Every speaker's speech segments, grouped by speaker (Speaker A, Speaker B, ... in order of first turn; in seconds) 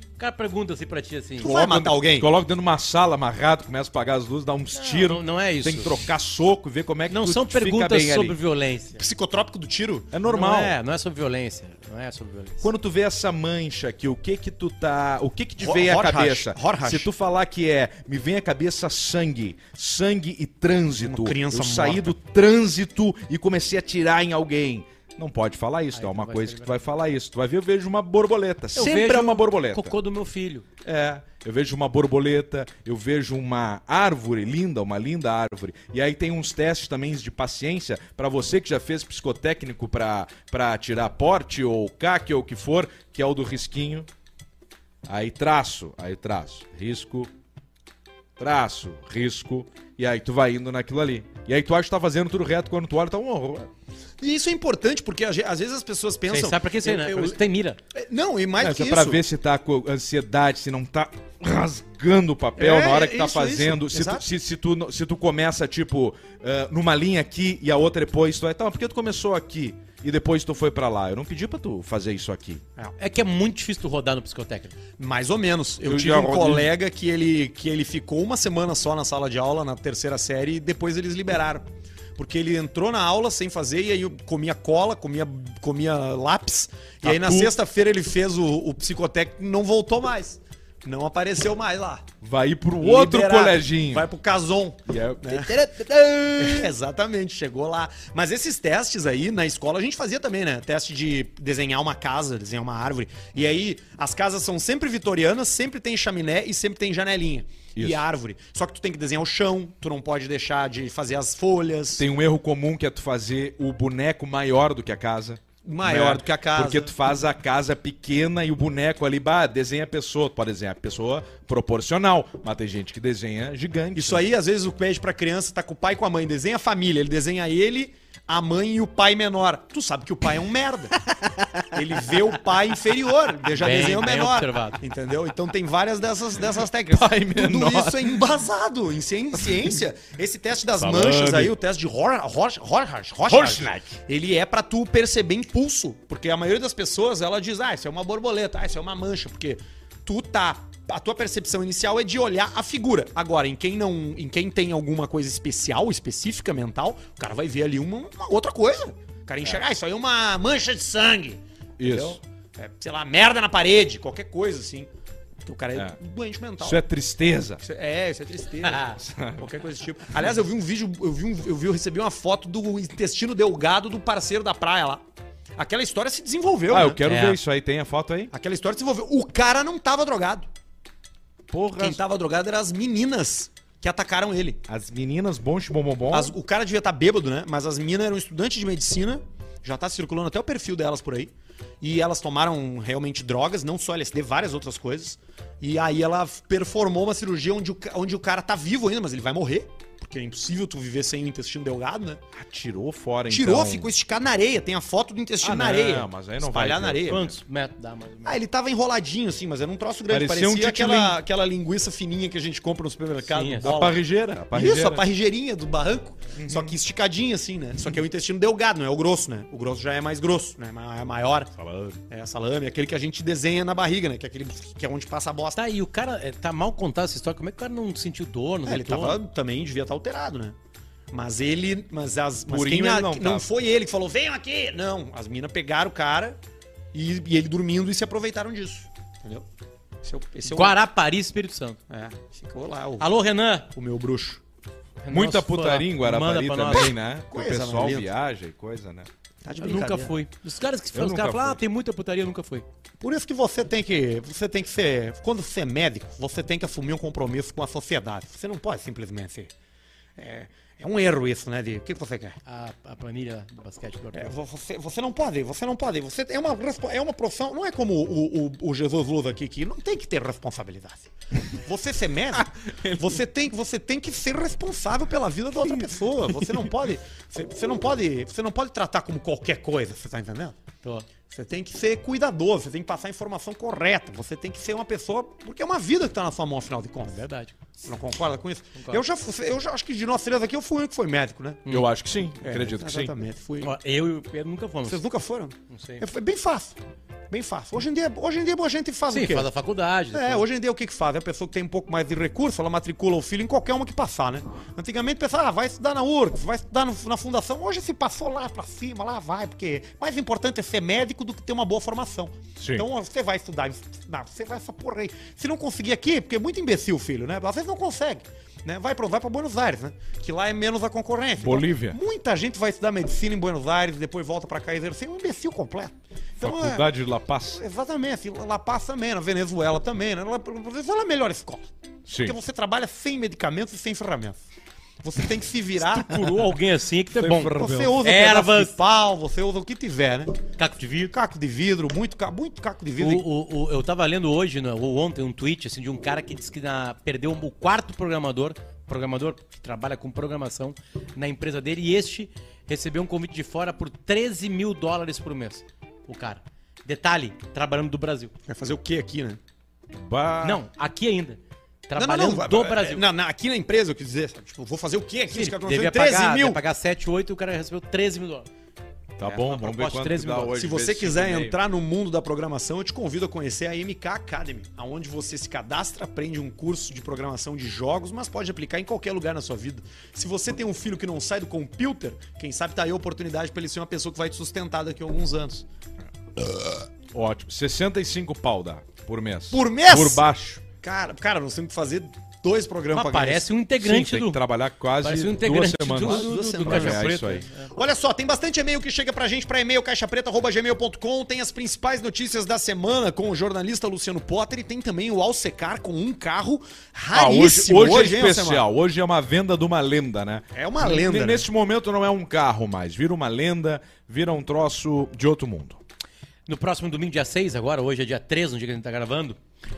Speaker A: 0.2-1.5, 4.7-6.0, 7.1-9.0, 10.2-12.7, 25.9-26.8, 28.7-30.6, 56.3-57.8, 73.0-74.8, 133.5-134.8, 168.6-169.0, 177.1-177.4, 207.1-208.4, 213.3-213.8, 225.6-229.2, 240.5-241.8, 243.0-243.7, 245.0-246.9, 249.6-252.7, 262.4-264.3, 287.1-287.6, 288.8-289.0, 293.6-295.0, 295.7-296.0, 299.1-300.4, 335.8-338.8, 340.6-341.1, 343.0-358.3, 360.4-363.1, 365.3-368.5, 369.2-370.6, 392.9-394.4, 395.0-397.7, 416.5-419.4
Speaker B: 1.4-2.3, 9.0-10.1, 15.6-17.1, 21.0-22.1, 54.2-57.4, 57.9-59.2, 62.6-64.3, 75.0-81.7, 82.2-92.0, 92.8-112.0, 115.7-117.0, 124.0-131.0, 131.7-164.9, 165.4-166.8, 167.6-175.0, 175.6-177.0, 178.3-180.5, 181.8-184.6, 186.1-202.2, 203.3-207.3, 208.3-221.5, 222.1-225.6, 228.7-230.6, 231.1-236.4, 236.9-239.4, 240.0-240.8, 241.9-243.1, 243.8-244.4, 246.7-248.1, 249.4-250.2, 253.0-259.5, 260.2-262.4, 264.1-280.6, 281.3-287.2, 287.8-291.7, 292.4-293.7, 294.9-296.8, 297.3-299.5, 300.1-326.9, 327.5-331.7, 332.2-334.4, 335.0-336.2, 337.5-340.4, 341.1-343.2, 358.5-359.4, 362.0-366.6, 370.6-385.6, 389.5-393.5, 396.0-397.2, 397.7-408.6, 410.5-411.5
Speaker C: 1.4-8.4, 10.1-10.8, 12.6-29.9, 30.9-44.1, 45.1-47.3, 48.4-53.7, 58.6-72.6, 75.8-76.7, 87.0-87.5, 92.2-94.1, 94.9-96.7, 107.8-108.0, 112.0-124.2, 131.2-131.6, 136.9-138.2, 140.8-141.6, 143.3-144.0, 161.8-162.2, 166.6-167.6, 169.0-169.5, 176.7-178.3, 181.5-182.0, 184.7-186.3, 202.3-203.9, 205.4-207.3, 210.1-211.2, 213.6-215.0, 216.4-216.8, 221.6-222.0, 232.5-233.5, 245.1-249.1, 250.9-251.6, 272.7-273.0, 291.7-293.1, 312.6-312.9, 321.4-322.0, 326.4-327.6, 332.1-332.4, 337.1-338.0, 359.9-360.6, 369.2-371.6, 386.4-390.6, 393.8-397.4, 407.1-415.8